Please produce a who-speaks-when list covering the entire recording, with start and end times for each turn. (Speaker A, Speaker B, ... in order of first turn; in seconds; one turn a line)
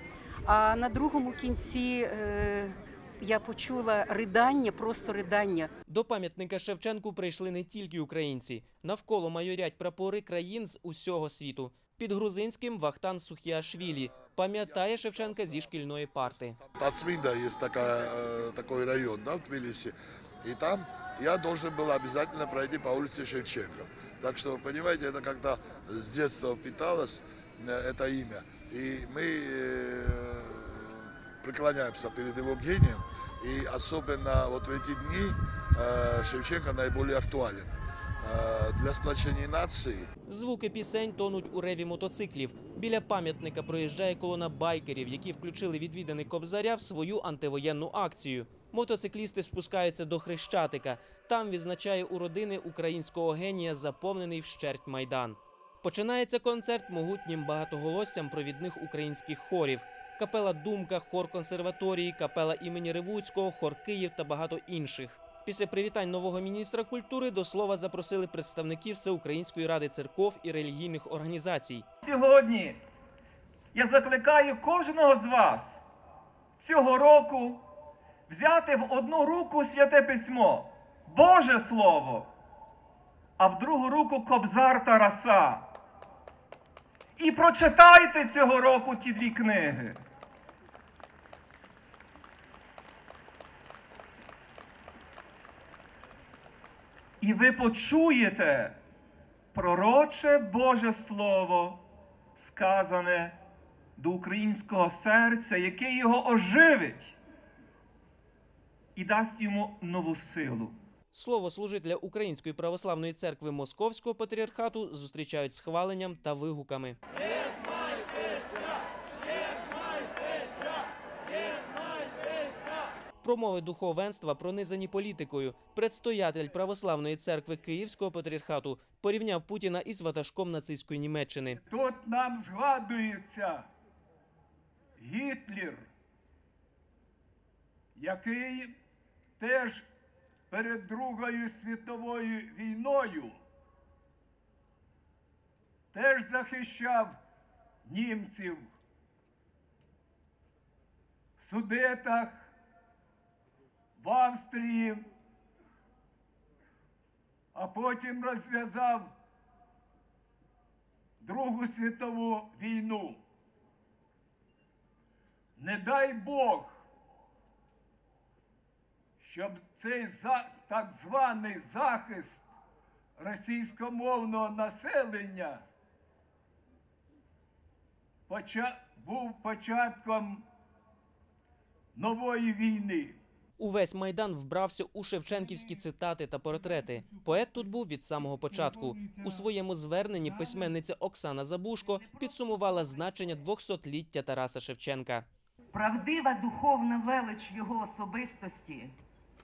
Speaker A: 0.5-5.7
Speaker B: 5.9-16.6
Speaker C: 14.7-15.8
Speaker C: 16.6-40.1
Speaker B: 40.2-71.8
Speaker D: 72.0-72.8
Speaker D: 73.7-75.9
Speaker D: 76.6-77.6
Speaker D: 78.3-82.3
Speaker D: 83.4-85.7
Speaker D: 87.2-90.0
Speaker D: 97.2-98.8
Speaker D: 99.5-101.8
Speaker D: 102.4-103.4
Speaker D: 104.0-107.2
Speaker D: 109.0-110.8
Speaker B: 111.1-117.0
Speaker B: 123.2-131.6
Speaker E: 131.7-133.6
Speaker E: 135.0-135.9
Speaker E: 137.9-138.7
Speaker E: 139.4-139.9
Speaker E: 140.5-143.4
Speaker E: 145.9-147.2
Speaker E: 147.8-148.7
Speaker E: 151.4-152.5
Speaker E: 154.0-155.1
Speaker E: 157.5-159.1
Speaker E: 161.2-163.2
Speaker E: 165.6-166.8
Speaker E: 169.2-172.4
Speaker E: 173.2-175.6
Speaker E: 178.3-180.4
Speaker E: 181.9-183.2
Speaker B: 183.6-195.2
Speaker F: 192.2-192.8
Speaker F: 195.7-198.9